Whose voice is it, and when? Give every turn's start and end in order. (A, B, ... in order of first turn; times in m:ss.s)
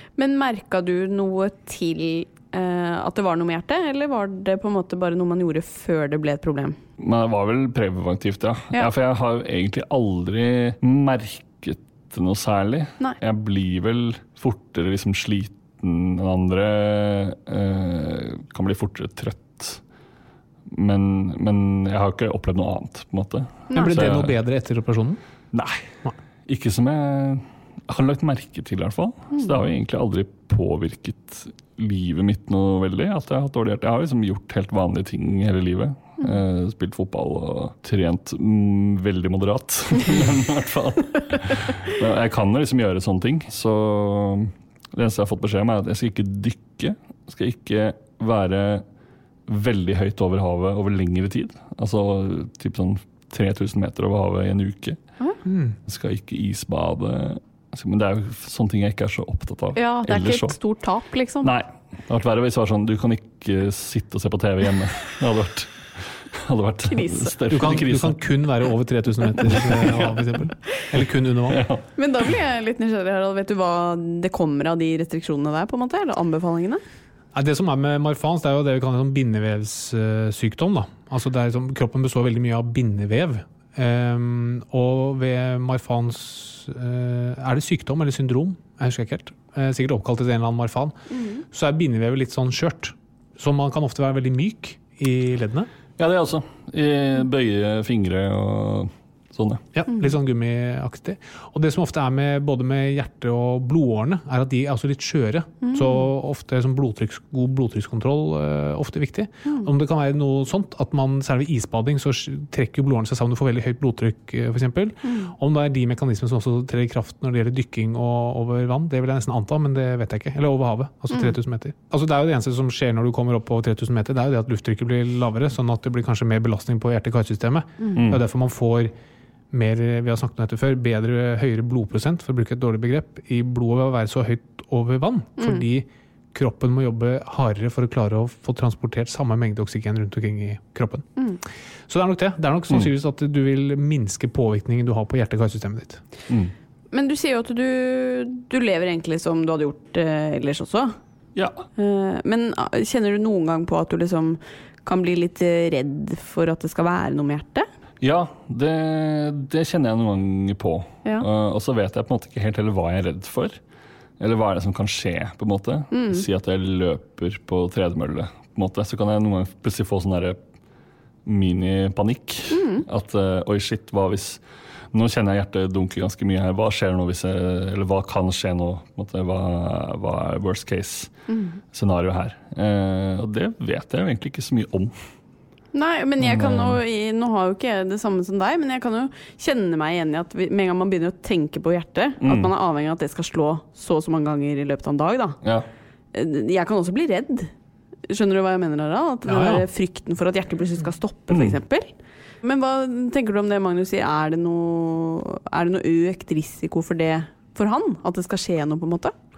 0:00.2-0:06.8 A
0:07.0-0:19.8 B
0:20.7-0:24.3 B
0:23.7-0:25.2 C
0:25.5-0:25.8 B
0:26.5-0:48.8 B
0:49.5-0:55.0 B
0:55.4-0:55.8 C
0:55.9-1:00.6 B
0:59.7-1:01.5 A
1:01.4-1:08.2 B
1:06.8-1:07.3 A
1:07.5-1:11.6 C
1:09.4-1:10.1 B
1:11.5-1:11.8 B
1:12.0-1:16.8 A
1:17.3-1:31.0 C
1:31.1-1:31.4 A
1:31.5-1:35.7 C
1:36.0-1:39.6 B
1:39.7-2:08.9 C
1:55.0-1:55.3 A
2:08.0-2:08.2 B
2:09.5-2:21.1 C
2:21.9-2:26.0 C
2:26.9-2:31.0 A
2:31.4-2:31.6 B
2:31.8-2:37.7 A
2:38.0-2:43.6 B
2:44.2-2:50.4 B
2:45.9-2:46.2 A
2:51.2-2:54.4 B
2:52.5-2:52.8 A
2:54.9-3:01.1 B
3:01.3-3:01.6 A
3:01.7-3:04.9 B
3:05.7-3:15.4 A
3:06.2-3:06.8 B
3:12.2-3:12.5 B
3:15.4-3:15.7 B
3:16.1-3:17.5 A
3:18.1-3:29.1 A
3:19.3-3:19.6 C
3:21.3-3:21.6 B